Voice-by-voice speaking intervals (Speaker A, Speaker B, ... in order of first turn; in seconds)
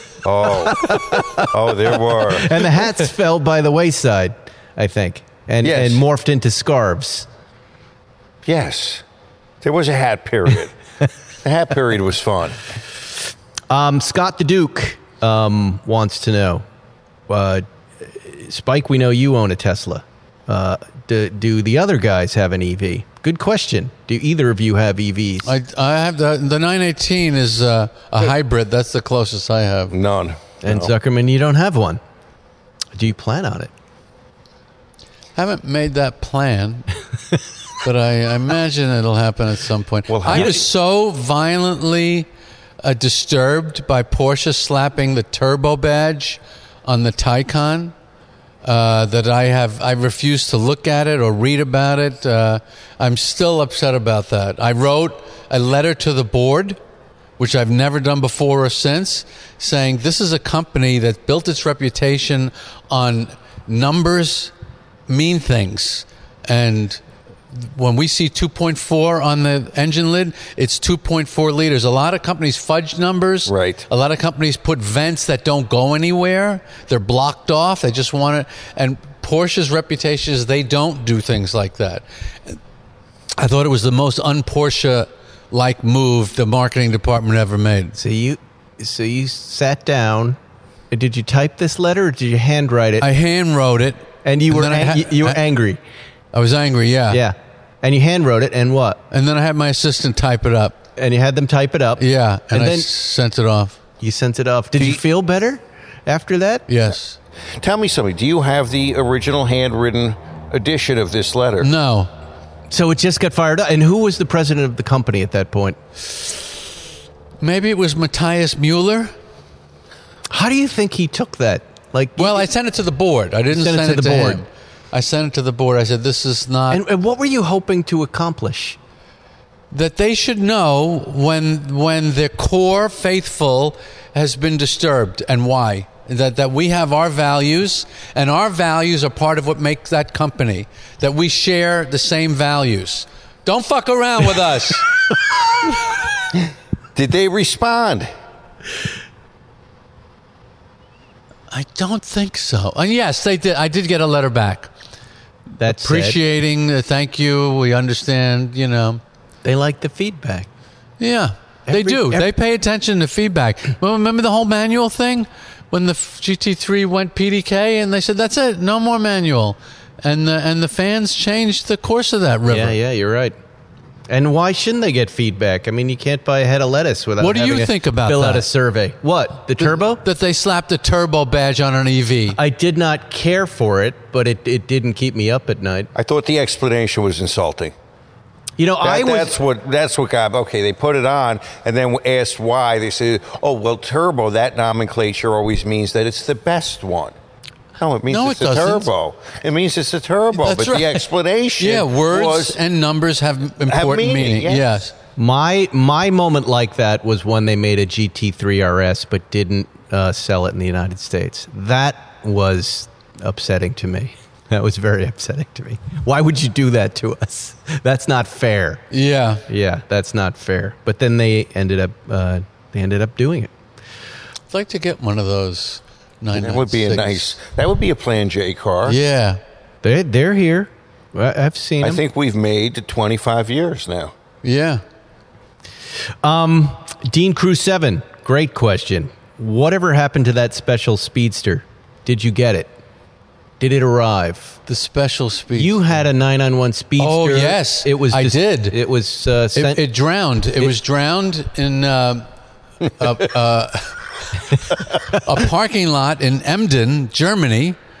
Speaker A: 0.2-2.6, 5.6-6.0, 8.4-9.0, 9.6-10.8, 11.4-12.7, 29.9-30.9, 40.1-40.6, 73.5-73.8, 107.6-111.7, 146.9-148.1, 185.9-187.7, 188.8-197.1, 197.8-202.6, 203.7-204.7, 226.3-229.0, 231.8-234.1
Speaker B: 0.4-7.3, 13.7-16.6, 17.3-25.6, 30.6-32.0, 32.9-33.7, 88.0-90.4, 90.9-93.1, 94.2-95.8, 97.1-99.0, 101.0-102.9, 104.0-106.7, 112.7-115.8, 120.3-122.5, 123.5-124.4, 126.7-128.8, 155.6-156.2, 159.4-160.5, 161.7-162.3, 172.5-173.3, 174.1-180.0, 182.3-185.9, 188.6-189.3, 205.2-218.8, 219.5-223.5, 229.8-232.0, 236.2-242.7, 243.6-244.6, 245.5-249.8
Speaker C: 25.4-29.9, 35.3-36.9, 37.8-42.3, 42.8-47.9, 48.6-56.8, 57.4-64.5, 65.1-67.0, 67.5-82.6, 83.4-88.0, 93.0-95.4, 96.3-97.2, 99.1-100.8, 102.0-103.8, 106.7-107.2, 111.6-112.1, 117.4-119.1, 122.2-126.8, 129.7-144.9, 151.5-154.7, 155.6-159.0, 161.0-172.8, 177.2-178.5, 179.6-182.4, 198.1-198.9, 200.3-201.0, 201.6-204.9, 218.9-219.4, 224.5-227.3, 228.8-229.4, 234.4-234.8, 244.7-245.8, 247.0-248.8, 249.5-252.2, 252.9-254.0, 254.5-257.8